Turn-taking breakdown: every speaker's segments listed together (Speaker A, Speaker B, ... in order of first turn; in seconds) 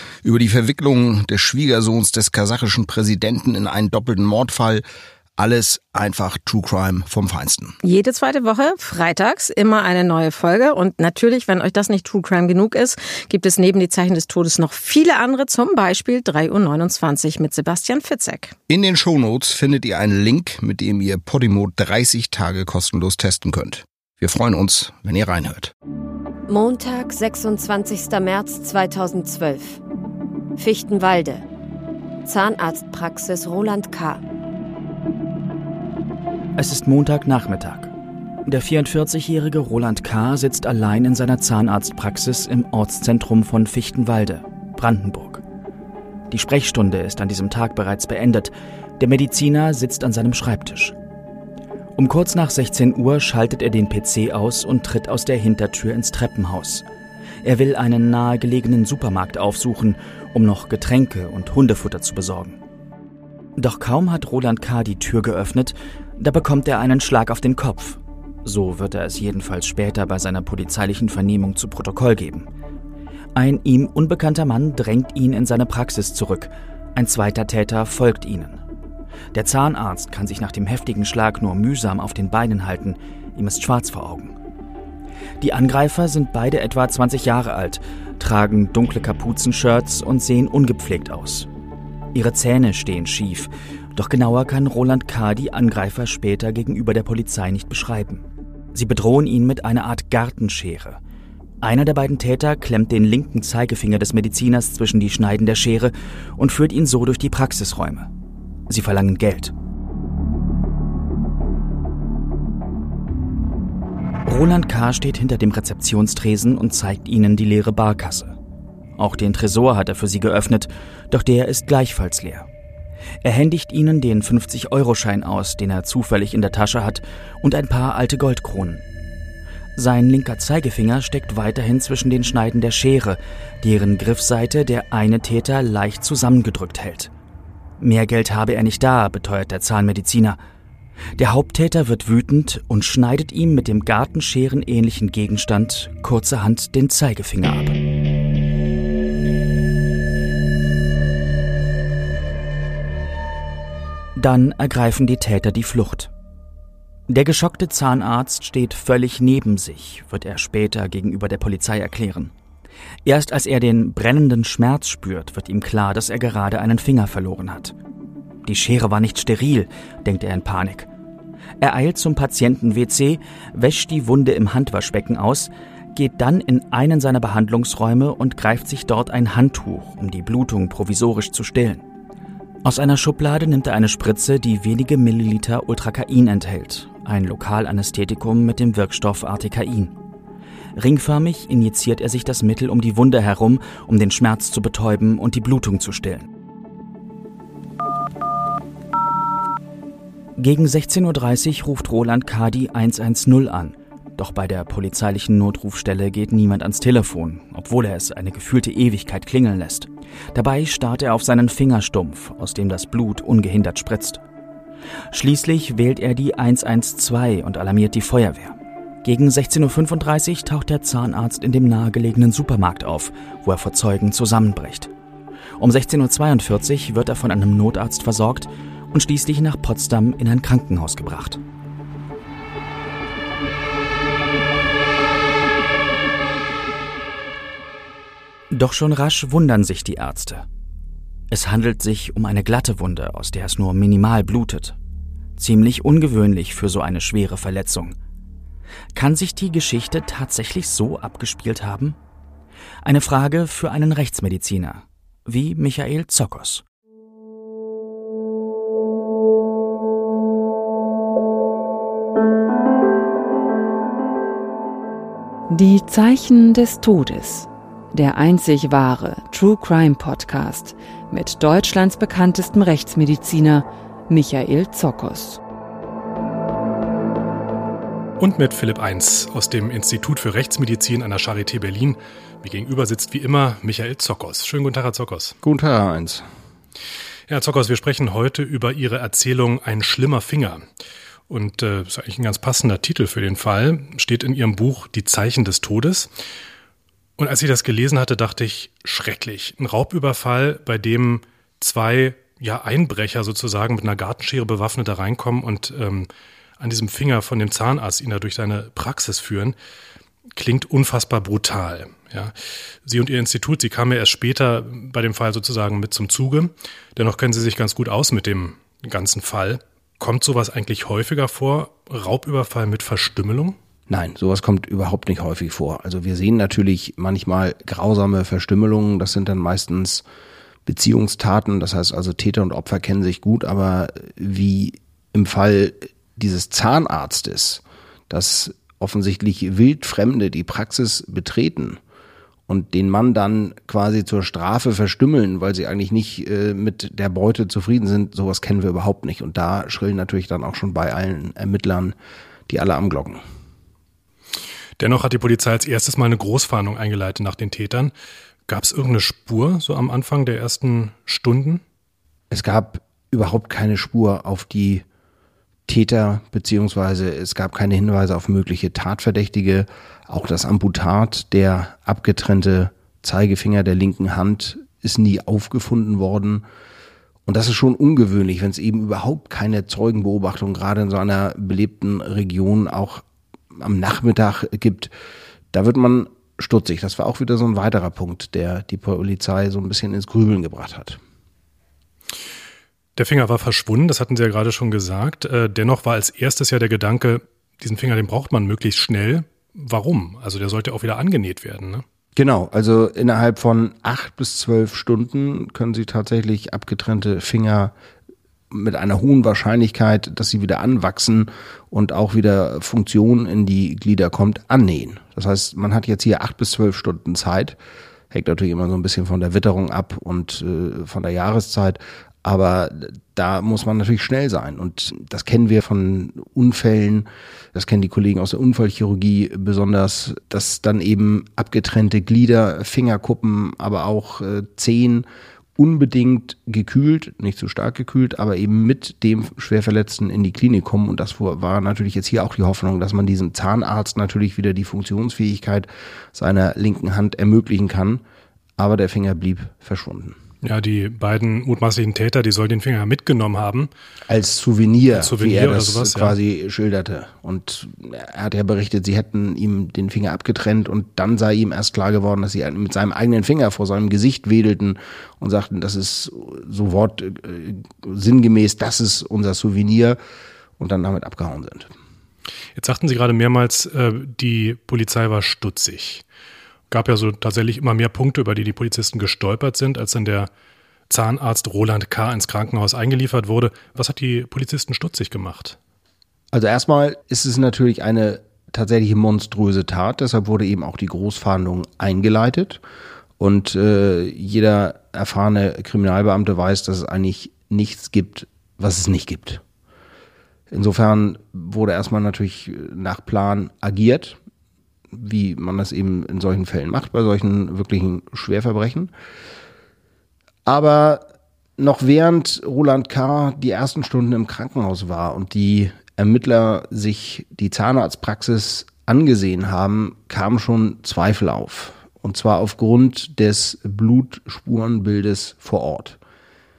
Speaker A: 0.2-4.8, 5.4-7.8, 18.7-25.7, 285.4-286.2, 323.9-330.1, 330.7-341.8, 342.5-352.0, 352.5-353.2, 362.3-364.9, 365.7-376.4, 377.3-384.9, 385.5-391.0, 402.2-407.7, 408.5-417.6, 418.1-435.1, 435.6-448.0, 448.6-450.2, 454.1-470.0, 470.6-471.7, 486.3-492.6, 493.2-499.4, 500.5-504.2, 504.9-508.9, 510.4-511.1, 511.6-526.0
Speaker B: 7.8-18.6
Speaker C: 26.5-29.8, 30.6-31.4, 32.2-34.2
Speaker D: 36.6-37.9, 38.5-45.4, 46.3-51.0, 52.0-56.9, 57.4-62.6, 63.6-72.5, 73.3-78.6, 79.3-84.4, 85.4-91.5, 92.1-101.0, 101.6-108.1, 108.7-109.5, 114.3-118.4, 119.0-122.5, 123.2-128.8, 129.8-137.1, 137.8-140.4, 141.2-147.8, 154.2-156.1, 157.1-162.3, 163.1-167.8, 168.4-170.9, 171.6-181.8, 182.7-189.9, 190.8-196.3, 200.4-214.2, 215.1-224.9, 225.6-231.4, 238.5-240.5, 241.3-244.8, 245.4-248.0, 248.9-252.0, 252.8-256.6
Speaker E: 265.5-275.4
Speaker F: 278.2-285.4, 287.3-290.6, 291.3-296.1, 297.2-309.6, 310.3-312.3, 312.9-323.6, 354.8-357.9, 358.5-361.6, 393.0-401.8, 450.4-453.7, 454.9-456.2, 472.6-476.1, 476.7-480.3, 480.9-485.6